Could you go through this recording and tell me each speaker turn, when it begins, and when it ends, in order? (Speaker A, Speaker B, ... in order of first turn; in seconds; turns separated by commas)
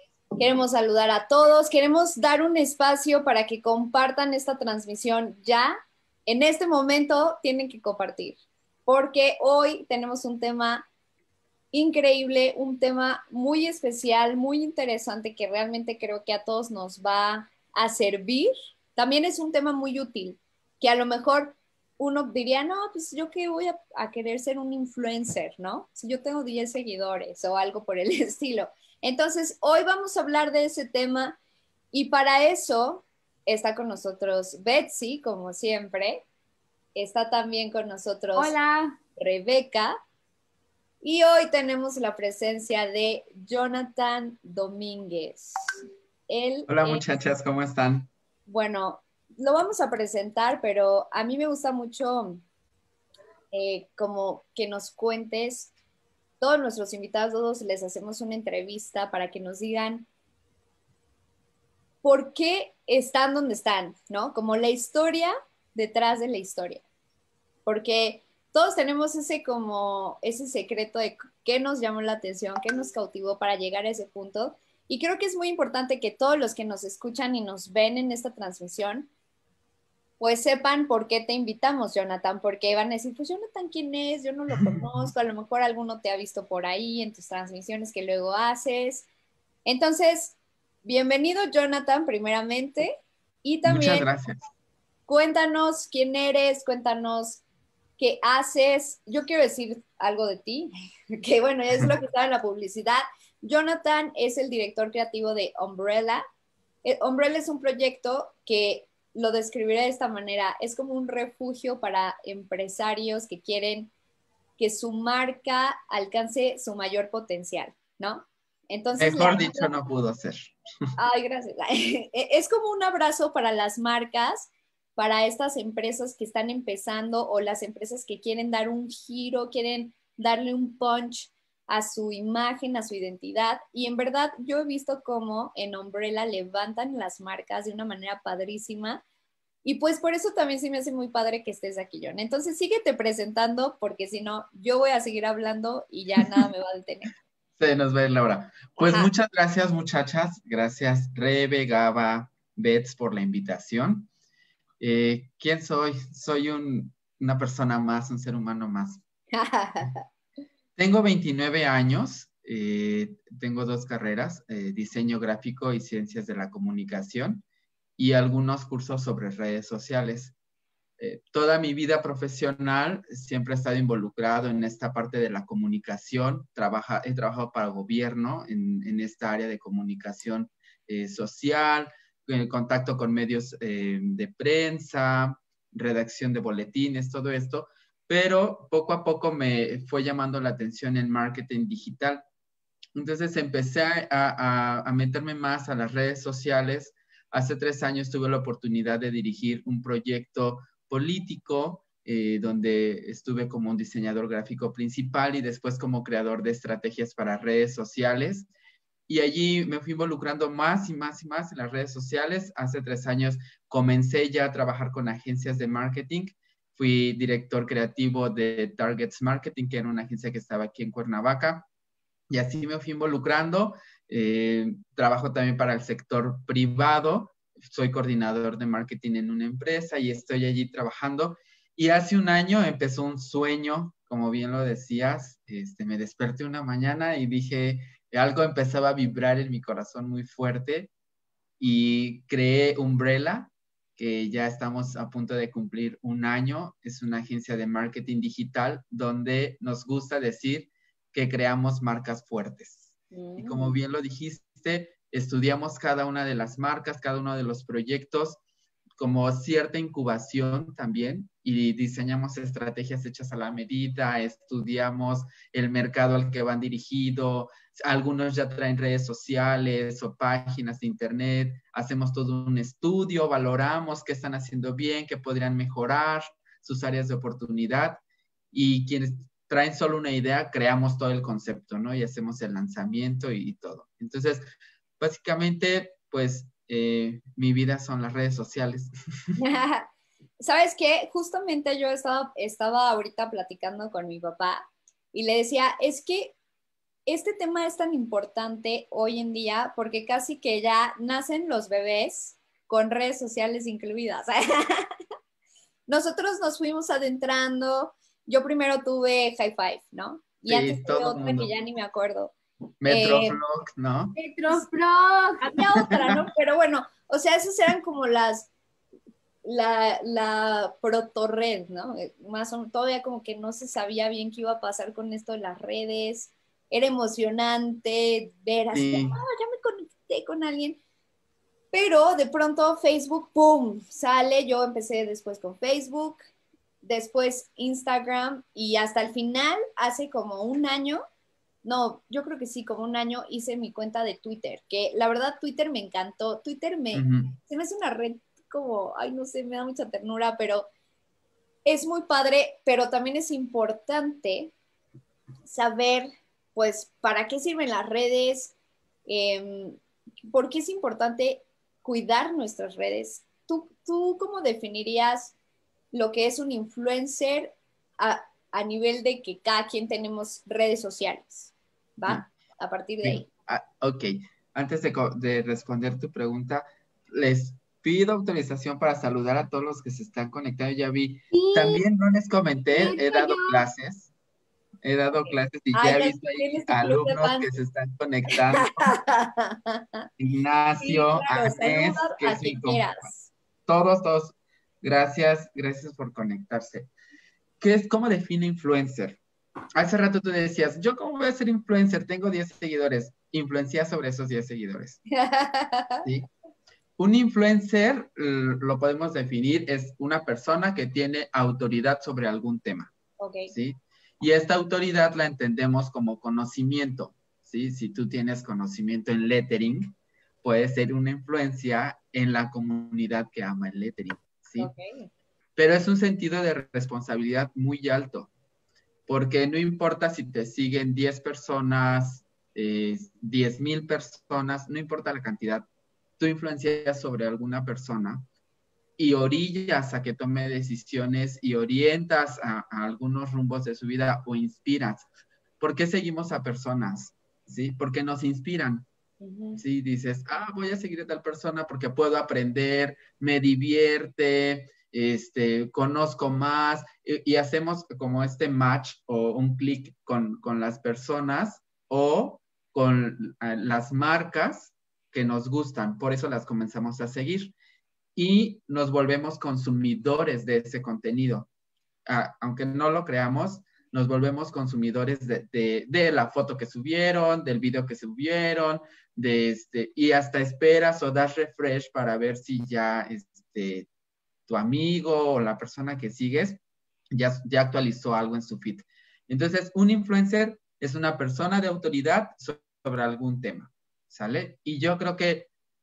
Speaker A: 0.4-10.8, Speaker A: 11.7-31.4, Speaker A: 31.9-36.2, Speaker A: 36.9-38.5, Speaker B: 38.3-39.0, Speaker A: 39.1-40.0, Speaker A: 41.0-45.6, Speaker A: 46.3-47.0, Speaker C: 46.7-48.1, Speaker A: 48.5-52.4, Speaker A: 53.5-55.7, Speaker A: 56.4-60.0, Speaker A: 62.0-66.8, Speaker A: 67.7-79.1, Speaker A: 80.2-89.1, Speaker C: 84.6-84.9, Speaker A: 89.7-94.1, Speaker C: 93.6-94.4, Speaker A: 95.1-97.4, Speaker A: 98.0-106.2, Speaker A: 106.8-113.9, Speaker A: 114.6-119.7, Speaker C: 119.0-120.5, Speaker A: 121.0-139.0, Speaker A: 139.6-147.1, Speaker C: 147.6-154.1, Speaker A: 148.8-149.1, Speaker C: 154.8-159.0, Speaker A: 159.3-160.0, Speaker C: 160.8-167.4, Speaker C: 168.0-170.3, Speaker C: 171.0-192.2, Speaker C: 192.9-208.5, Speaker C: 209.1-221.7, Speaker C: 222.3-240.9, Speaker C: 241.6-258.4, Speaker A: 253.1-253.8, Speaker C: 259.0-278.0, Speaker C: 278.5-284.4, Speaker C: 285.0-289.4, Speaker A: 289.4-289.9, Speaker A: 290.4-296.4, Speaker A: 297.1-304.9, Speaker A: 305.9-312.3, Speaker C: 310.4-311.5, Speaker C: 312.8-314.2, Speaker A: 312.9-313.4, Speaker B: 314.1-315.6, Speaker A: 315.4-318.5, Speaker A: 319.4-330.8, Speaker C: 328.7-329.1, Speaker A: 331.7-336.3, Speaker A: 336.8-341.0, Speaker A: 341.6-350.7, Speaker C: 346.9-347.3, Speaker A: 351.6-354.5, Speaker A: 355.4-358.5, Speaker A: 359.1-365.3, Speaker A: 365.9-373.3, Speaker C: 373.0-384.1, Speaker B: 381.3-381.8, Speaker B: 382.7-383.6, Speaker C: 384.8-388.9, Speaker A: 385.7-387.5, Speaker A: 388.4-389.8, Speaker C: 390.2-392.9, Speaker A: 390.8-393.3, Speaker C: 393.7-396.9, Speaker C: 397.6-399.2, Speaker C: 399.8-405.0, Speaker A: 405.1-406.1, Speaker C: 407.0-412.9, Speaker A: 413.2-413.5, Speaker C: 413.5-424.7, Speaker A: 424.6-425.1, Speaker C: 425.6-428.3, Speaker C: 429.1-435.7, Speaker C: 436.2-438.3, Speaker C: 439.0-445.1, Speaker C: 445.6-448.9, Speaker A: 449.2-449.6, Speaker C: 449.6-467.5, Speaker C: 468.1-471.5, Speaker C: 472.1-483.9, Speaker C: 484.5-486.6, Speaker C: 487.1-495.5